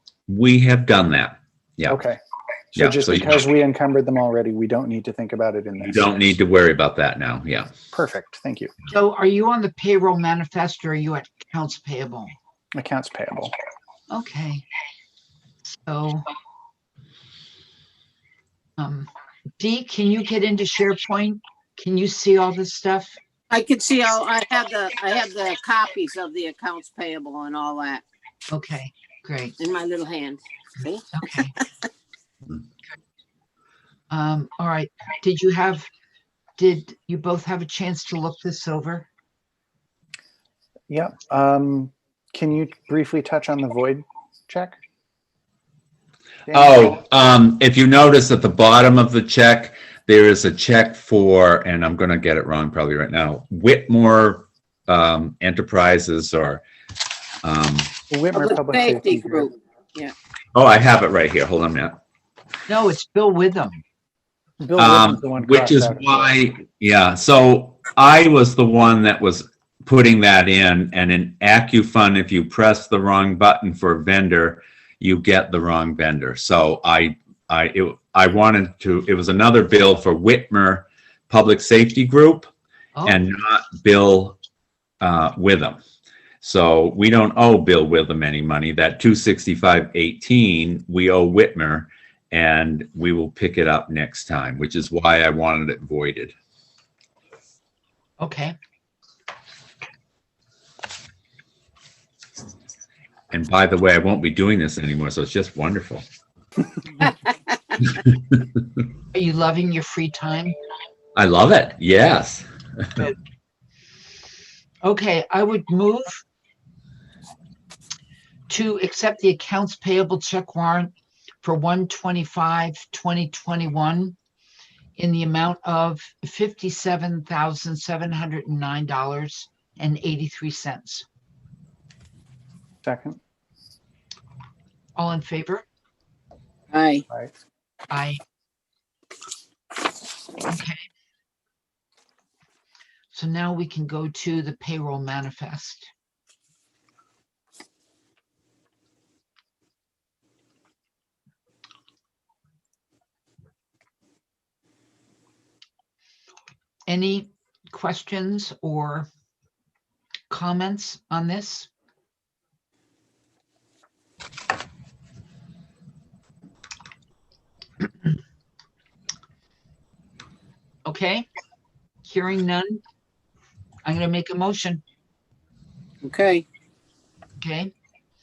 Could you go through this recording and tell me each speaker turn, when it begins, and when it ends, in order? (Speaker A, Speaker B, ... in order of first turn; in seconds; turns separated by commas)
Speaker A: 0.3-2.0, Speaker B: 1.9-2.2, Speaker A: 2.8-3.4, Speaker B: 2.8-6.2, Speaker A: 5.8-7.7, Speaker B: 7.9-8.7, Speaker C: 8.9-12.3, Speaker B: 12.7-13.5, Speaker C: 14.1-14.7, Speaker C: 15.7-16.2, Speaker C: 18.8-23.1, Speaker D: 23.5-28.0, Speaker C: 28.5-29.6, Speaker D: 29.6-31.1, Speaker C: 31.1-31.5, Speaker C: 34.1-35.9, Speaker C: 36.6-39.1, Speaker B: 40.9-44.8, Speaker B: 46.5-47.0, Speaker A: 46.5-56.6, Speaker A: 57.4-57.9, Speaker B: 58.1-59.5, Speaker D: 58.3-60.1, Speaker A: 60.5-62.0, Speaker C: 62.7-63.8, Speaker B: 64.6-66.3, Speaker A: 64.8-82.5, Speaker A: 83.0-84.4, Speaker A: 85.0-85.8, Speaker A: 86.4-96.3, Speaker C: 98.2-98.5, Speaker A: 103.3-106.0, Speaker A: 107.8-108.4, Speaker C: 109.1-110.5, Speaker A: 111.2-113.0, Speaker C: 114.8-116.2, Speaker C: 118.5-124.2, Speaker C: 125.0-131.1, Speaker B: 132.8-133.2, Speaker C: 134.9-135.6, Speaker D: 136.7-137.0, Speaker C: 137.9-138.2, Speaker C: 140.4-140.8, Speaker C: 143.1-145.9, Speaker C: 156.9-159.1, Speaker C: 160.3-161.7, Speaker C: 170.8-171.3, Speaker C: 172.0-172.8, Speaker C: 173.8-174.8, Speaker D: 176.0-176.4, Speaker C: 177.4-177.7